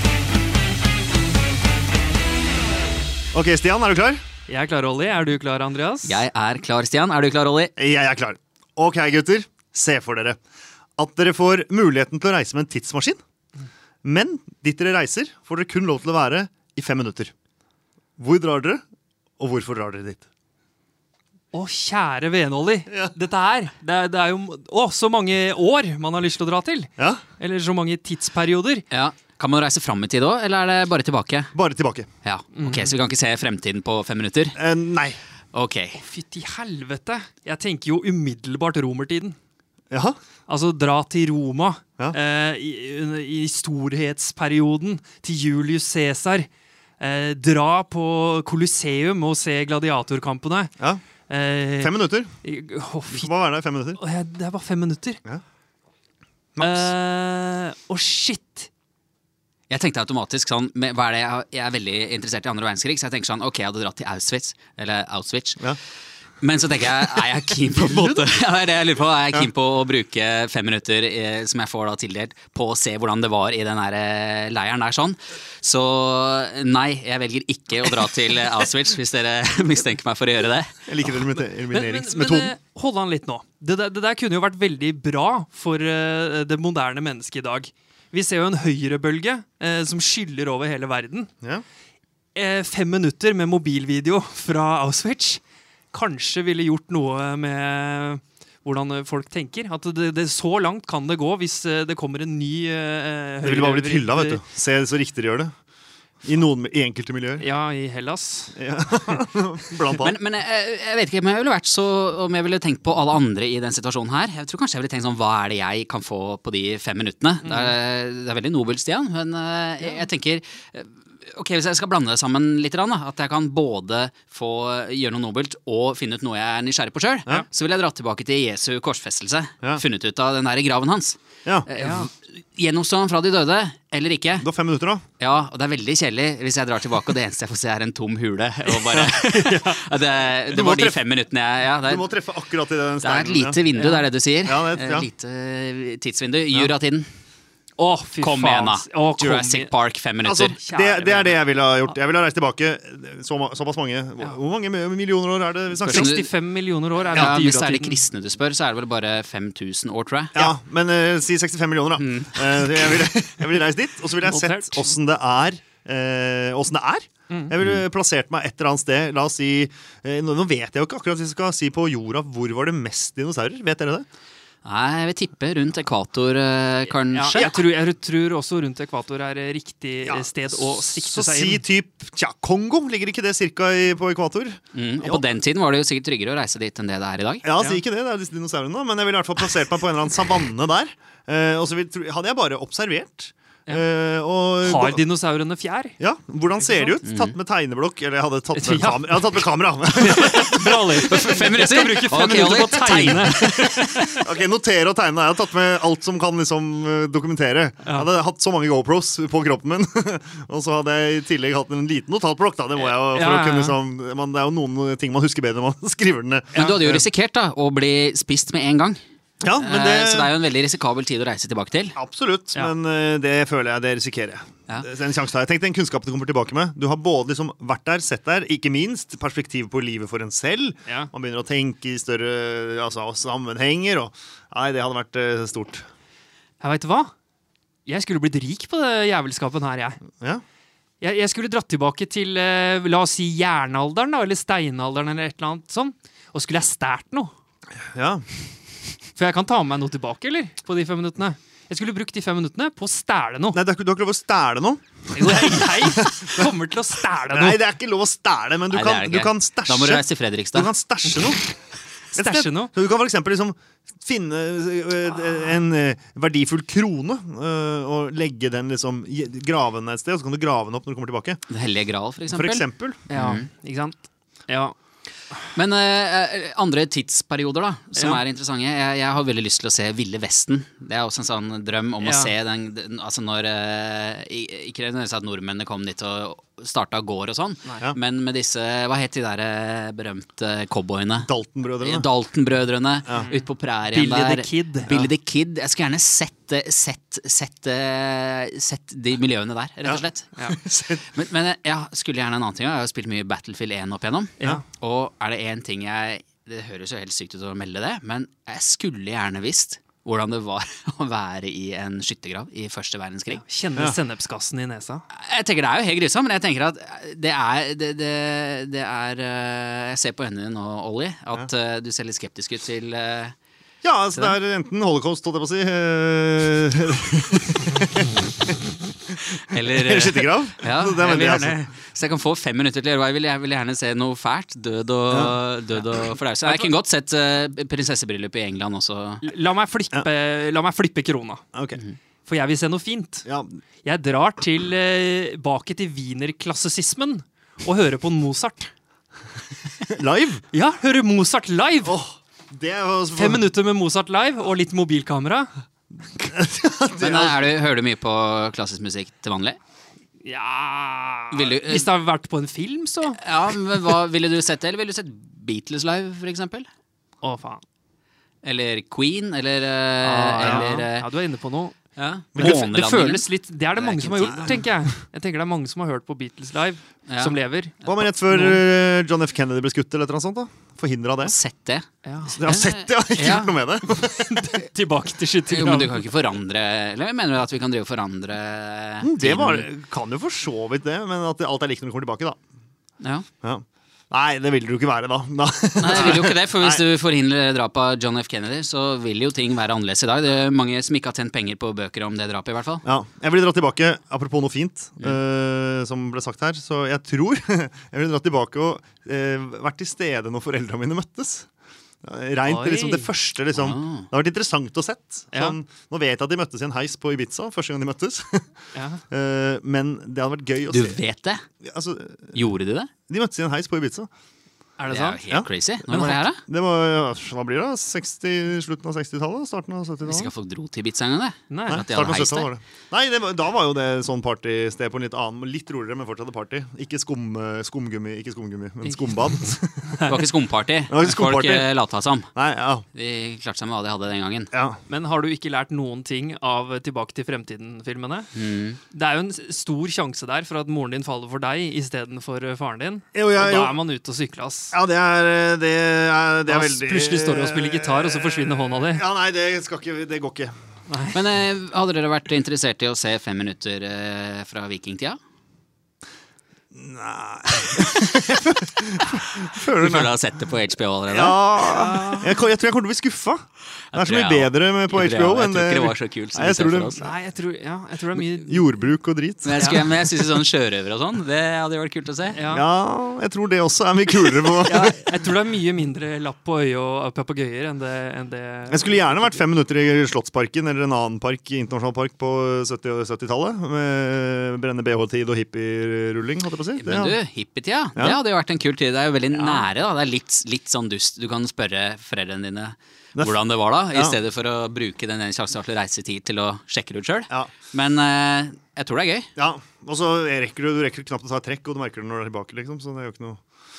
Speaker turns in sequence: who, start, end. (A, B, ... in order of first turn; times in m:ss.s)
0:03.3-0:04.2 A
0:04.5-0:06.2 B
0:06.0-0:07.7 C
0:07.8-0:10.4 A
0:11.0-0:13.2 A
0:14.0-0:17.3 A
0:18.2-0:18.8 A
0:19.4-0:20.2 A
0:21.5-0:28.8 B
0:27.0-0:27.2 A
0:28.9-0:31.5 C
0:31.5-0:32.1 A
0:32.2-0:34.6 C
0:32.5-0:33.0 B
0:34.6-0:35.2 A
0:35.5-0:36.0 C
0:35.9-0:39.4 B
0:39.9-0:40.2 A
0:40.5-0:46.5 B
0:47.0-0:50.7 B
0:51.3-0:53.3 B
0:51.8-0:52.3 A
0:53.1-0:54.0 A
0:54.0-0:55.2 B
0:56.6-0:56.9 A
0:56.6-0:58.7 B
0:59.7-1:05.7 C
1:06.4-1:20.8 C
1:20.8-1:22.5 A
1:21.1-1:31.3 B
1:32.3-1:35.4 B
1:35.9-1:44.4 B
1:43.4-1:45.5 A
1:46.2-1:47.4 A
1:47.4-1:48.6 B
1:48.6-1:50.1 A
1:50.0-2:14.5 C
1:57.4-1:57.8 B
2:11.8-2:12.1 B
2:14.4-2:15.0 A
2:15.2-2:22.1 C
2:18.7-2:21.0 A
2:21.8-2:23.6 A
2:23.0-2:27.1 C
2:23.7-2:24.0 B
2:24.4-2:25.1 A
2:27.8-2:29.7 B
2:28.2-2:30.6 C
2:30.2-2:36.2 A
2:30.5-2:31.4 B
2:35.8-2:38.0 B
2:35.9-2:36.3 C
2:37.1-2:37.4 A
2:37.1-2:40.4 C
2:40.3-2:54.0 A
2:42.0-2:42.6 C
2:44.2-2:44.8 B
2:47.3-2:47.5 B
2:54.6-2:57.5 C
2:56.9-3:01.6 B
3:00.0-3:05.2 A
3:04.7-3:07.4 C
3:07.4-3:15.0 A
3:14.6-3:16.0 B
3:16.0-3:21.2 A
3:16.6-3:17.0 B
3:17.0-3:17.3 C
3:18.5-3:19.4 B
3:20.0-3:24.2 B
3:21.0-3:23.8 C
3:23.2-3:37.0 A
3:33.1-3:33.8 B
3:36.5-3:39.0 C
3:39.4-3:40.4 A
3:39.5-3:42.0 C
3:42.0-3:55.8 A
3:56.6-3:57.1 B
3:57.8-4:00.0 B
4:01.0-4:07.3 B
4:07.9-4:08.2 A
4:09.2-4:13.6 B
4:13.5-4:16.5 A
4:15.1-4:17.6 B
4:17.3-4:21.5 A
4:18.7-4:20.7 C
4:22.1-4:22.7 B
4:22.1-4:31.4 A
4:31.5-4:33.5 C
4:32.3-4:33.0 A
4:33.1-4:33.9 B
4:34.5-4:34.7 B
4:35.5-4:51.3 C
4:42.0-4:42.3 B
4:51.2-4:52.1 A
4:51.8-5:13.4 C
4:53.1-4:54.9 B
4:59.8-5:01.1 A
5:13.3-5:15.0 B
5:15.1-5:23.3 C
5:23.8-5:28.1 A
5:29.1-5:31.6 A
5:29.4-5:39.2 C
5:31.1-5:31.5 B
5:35.1-5:35.4 A
5:36.4-5:36.7 B
5:39.2-5:41.4 B
5:41.5-5:41.8 A
5:42.2-5:43.2 B
5:43.2-5:43.6 A
5:43.8-5:48.7 B
5:49.8-5:50.4 A
5:50.5-5:52.0 B
5:51.8-5:53.5 A
5:53.1-5:55.5 B
5:56.1-5:57.4 A
5:57.0-5:59.6 C
6:00.2-6:03.2 B
6:01.3-6:01.9 C
6:03.2-6:06.7 C
6:07.2-6:07.6 B
6:08.4-6:11.1 C
6:10.0-6:11.7 B
6:10.4-6:10.7 A
6:12.0-6:14.6 C
6:12.3-6:12.6 A
6:12.4-6:18.6 B
6:17.1-6:18.0 C
6:17.8-6:21.4 A
6:21.2-6:23.6 C
6:22.0-6:22.4 B
6:22.3-6:24.6 A
6:24.2-6:26.0 B
6:25.5-6:29.7 C
6:29.0-6:32.4 A
6:33.0-6:33.2 C
6:33.4-6:36.8 A
6:35.8-6:42.8 C
6:42.8-6:51.5 A
6:52.0-6:58.5 A
6:52.5-6:53.1 B
6:53.5-6:54.1 C
6:58.7-6:59.0 B
6:59.1-7:01.0 A
7:00.7-7:01.4 C
7:01.6-7:02.4 A
7:02.3-7:02.9 C
7:03.1-7:04.1 A
7:04.8-7:05.2 B
7:04.9-7:06.4 C
7:05.3-7:10.3 A
7:10.0-7:12.5 C
7:11.5-7:11.8 B
7:11.7-7:20.2 A
7:18.8-7:20.1 B
7:20.0-7:22.3 C
7:20.9-7:21.7 A
7:22.3-7:22.8 A
7:22.9-7:24.5 C
7:24.5-7:24.8 A
7:24.9-7:28.3 B
7:28.3-7:28.8 C
7:28.9-7:34.8 B
7:33.1-7:33.8 A
7:34.7-7:40.5 A
7:36.5-7:39.0 B
7:40.9-7:41.2 B
7:41.1-7:45.2 C
7:46.7-7:50.2 A
7:49.6-7:51.5 C
7:51.1-7:57.1 A
7:51.6-7:52.4 B
7:53.9-7:57.0 C
7:57.0-7:58.8 B
7:58.1-7:59.8 A
7:59.4-8:02.4 C
7:59.6-7:59.9 B
8:02.3-8:02.6 B
8:02.5-8:05.0 A
8:04.6-8:09.4 B
8:08.7-8:17.2 A
8:16.8-8:29.3 C
8:19.3-8:19.7 A
8:23.9-8:24.2 A
8:29.4-8:33.4 A